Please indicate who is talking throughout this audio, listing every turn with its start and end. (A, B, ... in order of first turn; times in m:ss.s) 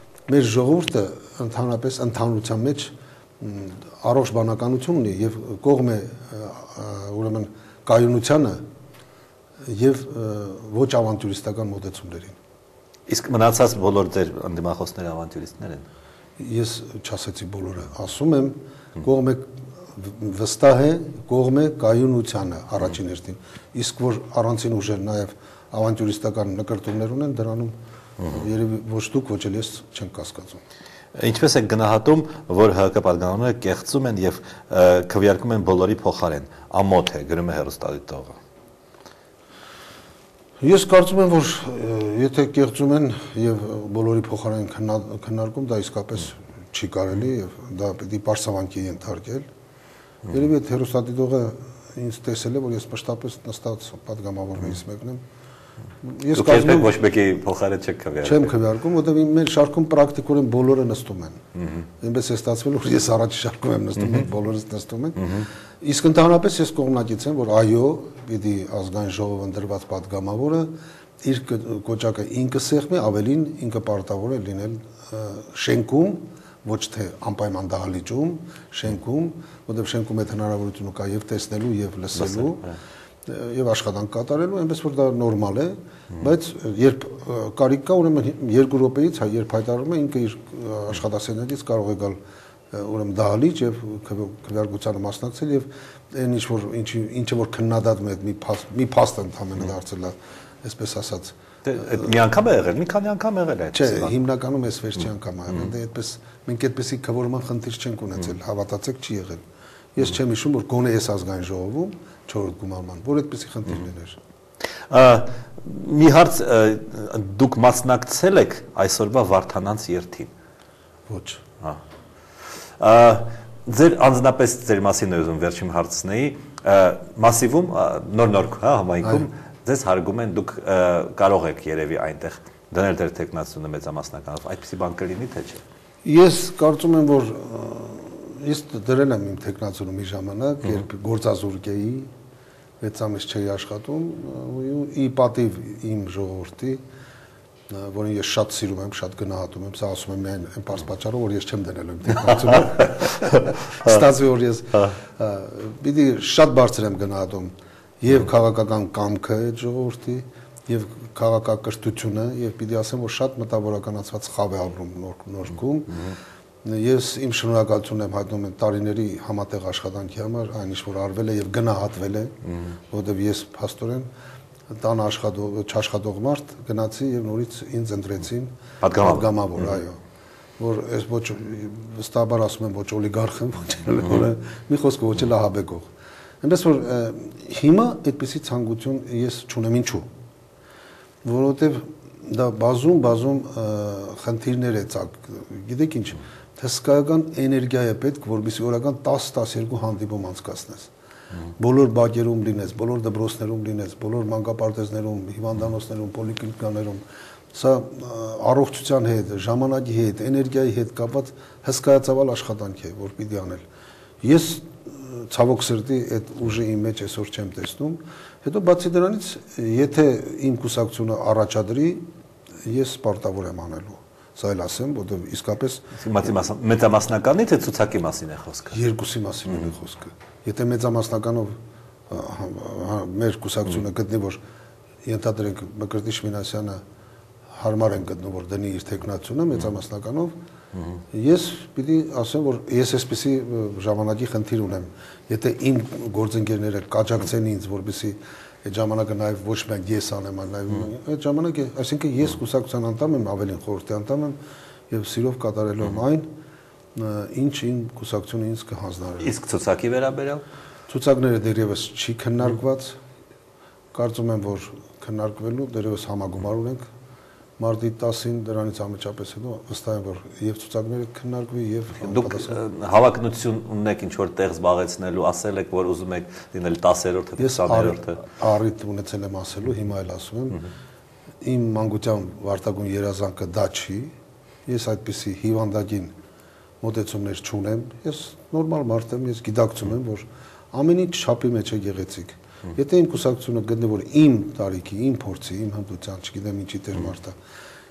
0:00.3-0:08.6 A
0:09.6-0:12.4 A
0:13.1-0:15.8 B
0:16.4-0:30.6 A
0:31.2-0:38.4 B
0:40.6-0:49.5 A
0:50.3-0:55.2 A
0:56.0-0:56.9 A
0:56.3-0:58.5 B
0:58.2-1:01.4 A
1:02.0-1:10.7 A
1:11.2-1:22.7 A
1:23.2-1:32.2 A
1:32.7-1:42.0 A
1:41.6-1:44.1 B
1:43.7-1:49.4 A
1:49.9-1:54.2 A
1:54.9-2:00.3 B
2:01.1-2:01.4 A
2:02.8-2:15.6 B
2:16.0-2:22.1 A
2:22.8-2:26.8 A
2:27.7-2:52.4 A
2:52.9-2:54.1 A
2:54.7-3:00.0 A
2:58.8-2:59.3 B
3:00.6-3:05.8 A
3:06.4-3:10.1 A
3:11.2-3:20.9 A
3:21.6-3:27.0 A
3:27.5-3:33.6 A
3:34.2-3:42.1 A
3:42.6-3:45.8 A
3:46.0-3:48.8 B
3:48.7-3:51.6 A
3:52.1-3:54.4 A
3:55.0-3:56.8 A
3:57.5-4:00.3 A
4:01.1-4:14.4 A
4:14.9-4:16.3 A
4:16.9-4:19.3 A
4:19.2-4:20.4 B
4:20.9-4:23.0 A
4:23.9-4:26.8 A
4:27.6-4:32.6 A
4:32.0-4:38.2 B
4:37.4-4:40.6 A
4:41.4-4:44.1 A
4:44.6-4:46.1 A
4:46.8-4:57.4 A